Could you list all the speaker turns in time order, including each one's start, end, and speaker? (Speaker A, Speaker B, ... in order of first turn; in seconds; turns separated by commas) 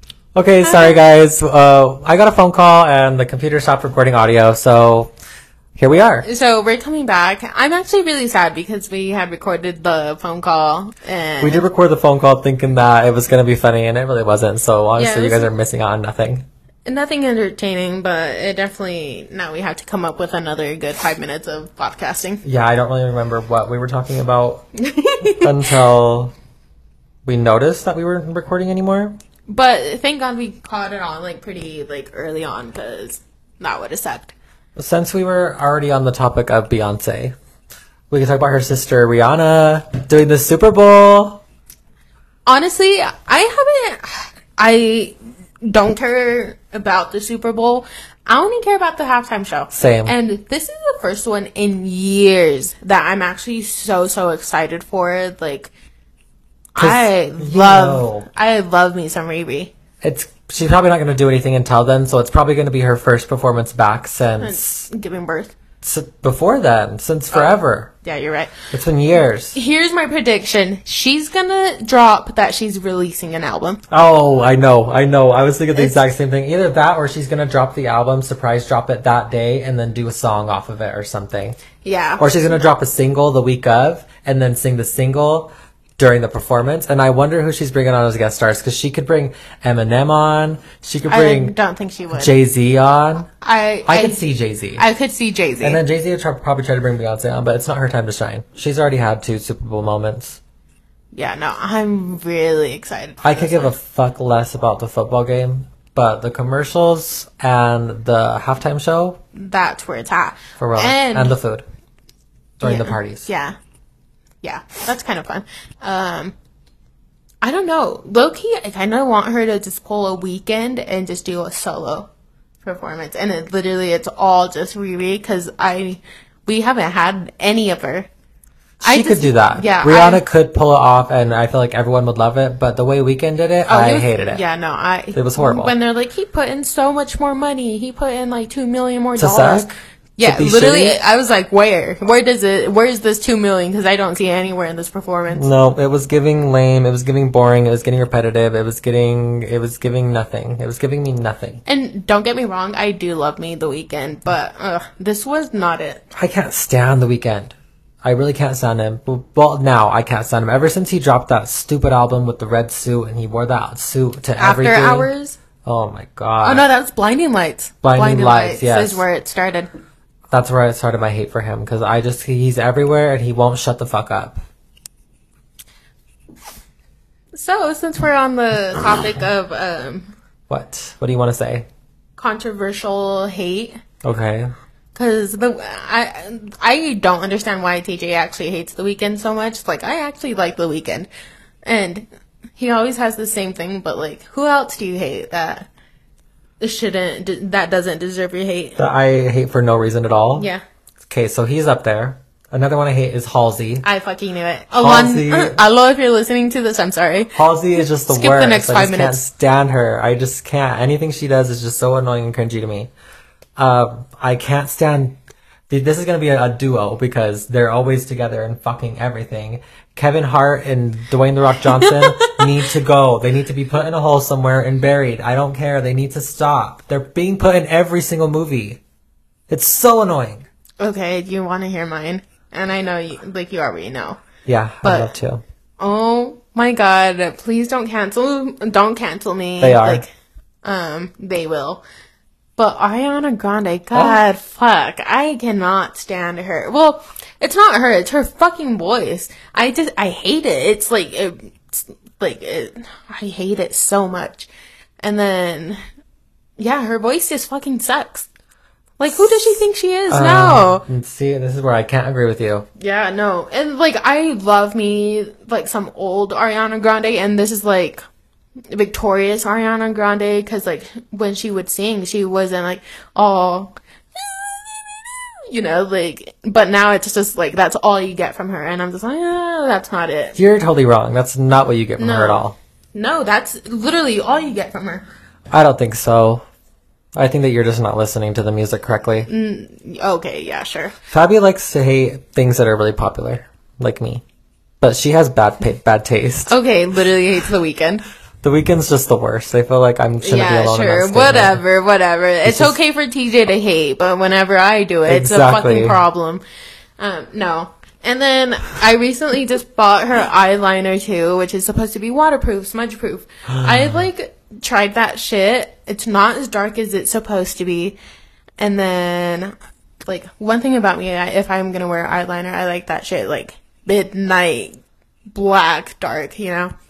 Speaker A: 0.3-5.1, Speaker B: 0.6-1.0, Speaker A: 5.8-6.3, Speaker B: 6.2-11.6, Speaker A: 11.4-16.4, Speaker B: 14.9-15.5, Speaker B: 16.9-22.4, Speaker A: 22.4-24.7, Speaker B: 24.8-25.5, Speaker A: 25.2-26.3, Speaker A: 27.2-29.1, Speaker B: 29.5-34.3, Speaker A: 34.8-37.3, Speaker A: 38.1-41.4, Speaker B: 42.5-55.7, Speaker A: 49.7-50.1, Speaker B: 56.7-59.7, Speaker A: 56.8-58.2, Speaker A: 60.0-64.9, Speaker B: 64.4-65.5, Speaker A: 65.8-67.9, Speaker B: 67.3-68.5, Speaker A: 68.7-69.5, Speaker B: 69.5-73.8, Speaker A: 73.9-81.6, Speaker B: 75.7-76.0, Speaker B: 81.8-82.3, Speaker A: 82.2-91.5, Speaker B: 91.1-92.3, Speaker A: 92.1-93.3, Speaker B: 93.4-94.2, Speaker A: 93.8-94.8, Speaker B: 94.8-95.8, Speaker A: 95.6-100.4, Speaker B: 101.1-103.7, Speaker A: 103.2-109.2, Speaker B: 109.3-111.3, Speaker A: 110.6-111.6, Speaker A: 112.6-113.3, Speaker B: 112.6-113.5, Speaker B: 114.4-116.3, Speaker B: 117.4-122.1, Speaker B: 122.6-128.1, Speaker A: 128.8-134.4, Speaker B: 128.8-130.2, Speaker B: 133.7-145.5, Speaker A: 135.1-135.7, Speaker A: 139.2-141.0, Speaker A: 145.3-151.6, Speaker B: 151.7-156.0, Speaker A: 156.1-165.1, Speaker B: 164.4-165.4, Speaker A: 165.6-166.7, Speaker B: 166.4-169.7, Speaker A: 167.8-169.0, Speaker A: 170.3-174.4, Speaker B: 177.3-180.1, Speaker A: 180.5-181.7, Speaker B: 182.2-183.8, Speaker A: 184.0-184.5, Speaker B: 184.9-191.1, Speaker B: 191.6-192.1, Speaker B: 192.6-195.7, Speaker B: 196.6-198.8, Speaker A: 198.8-200.5, Speaker B: 200.3-200.6, Speaker A: 201.1-203.8, Speaker B: 203.8-207.3, Speaker A: 204.7-205.6, Speaker A: 207.3-212.9, Speaker B: 208.1-209.2, Speaker A: 213.6-215.2, Speaker A: 215.7-228.8, Speaker B: 221.7-222.5, Speaker A: 229.5-230.4, Speaker B: 230.8-234.2, Speaker A: 234.4-235.4, Speaker B: 234.8-235.1, Speaker B: 235.8-240.1, Speaker A: 239.6-240.0, Speaker B: 240.6-241.8, Speaker B: 242.6-254.5, Speaker A: 243.9-244.2, Speaker B: 255.0-255.8, Speaker B: 256.6-258.3, Speaker B: 259.0-260.8, Speaker A: 260.1-262.7, Speaker B: 262.8-268.0, Speaker B: 268.7-280.4, Speaker A: 280.4-282.6, Speaker B: 282.0-285.0, Speaker A: 285.5-286.4, Speaker A: 287.1-289.3, Speaker B: 289.3-290.9, Speaker A: 291.1-294.2, Speaker A: 294.8-296.6, Speaker B: 296.5-298.0, Speaker A: 298.4-301.6, Speaker B: 300.2-306.4, Speaker A: 302.4-302.8, Speaker A: 305.1-306.0, Speaker B: 307.0-318.0, Speaker A: 313.6-314.0, Speaker B: 318.6-319.5, Speaker B: 320.1-324.7, Speaker B: 325.3-326.7